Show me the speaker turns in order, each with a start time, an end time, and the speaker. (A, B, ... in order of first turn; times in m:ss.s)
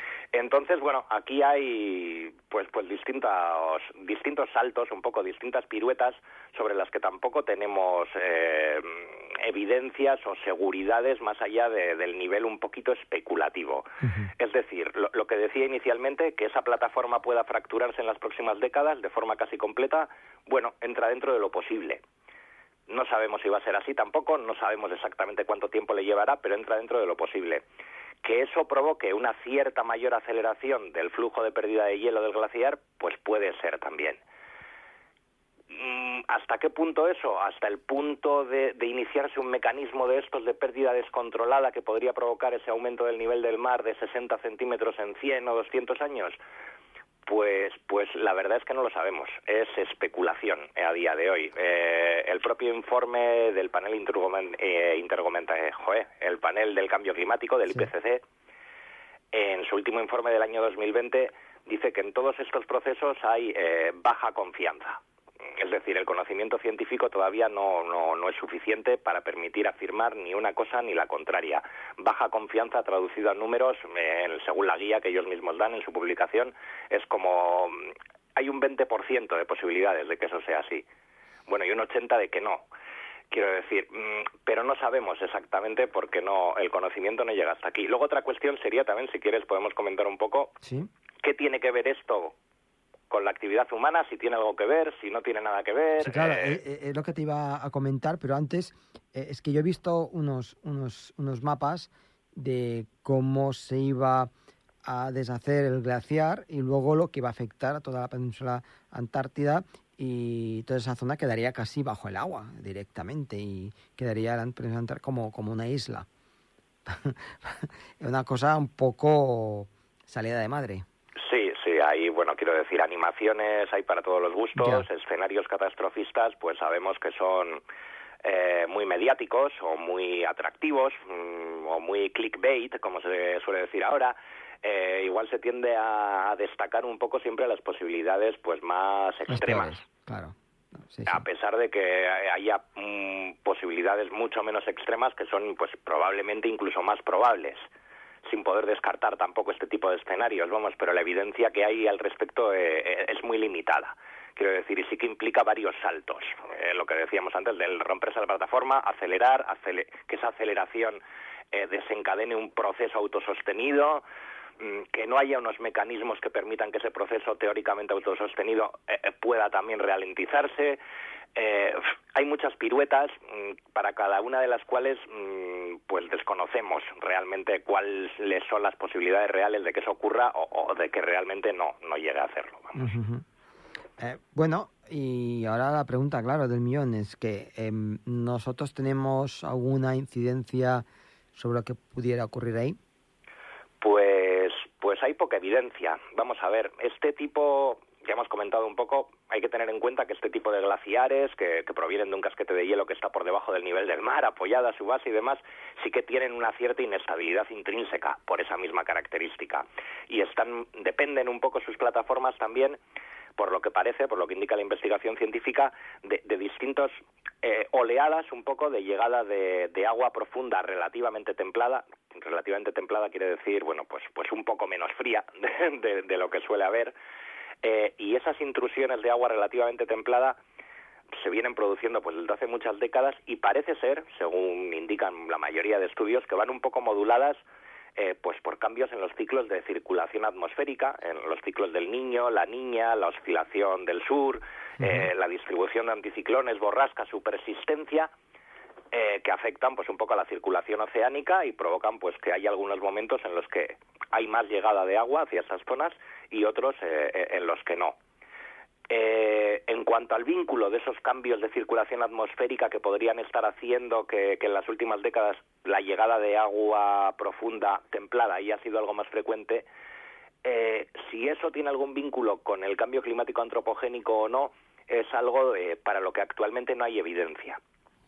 0:00.3-0:22.0 A
0:14.0-0:14.3 B
0:22.9-0:27.6 A
0:28.2-0:34.2 A
0:35.7-0:46.4 A
0:47.3-0:58.2 A
0:59.3-1:05.0 A
1:05.6-1:20.8 A
1:21.5-1:22.6 A
1:23.3-1:30.6 A
1:30.6-1:30.9 B
1:31.2-1:32.4 A
1:33.1-1:36.6 A
1:36.0-1:44.3 B
1:44.8-1:56.1 B
1:56.9-2:00.8 B
2:01.2-2:07.6 A
2:04.6-2:04.9 B
2:08.2-2:19.8 A
2:19.3-2:21.2 B
2:21.1-2:27.6 A
2:28.2-2:41.0 A
2:41.5-2:44.0 A
2:44.6-2:50.8 A
2:51.4-3:02.9 A
3:02.8-3:03.2 B
3:04.0-3:12.8 B
3:13.8-3:32.8 A
3:33.4-3:47.0 A
3:47.6-3:50.4 A
3:51.1-3:57.4 A
3:58.0-4:08.1 A
4:04.8-4:05.0 B
4:08.9-4:18.0 A
4:18.9-4:29.7 A
4:30.4-4:37.6 A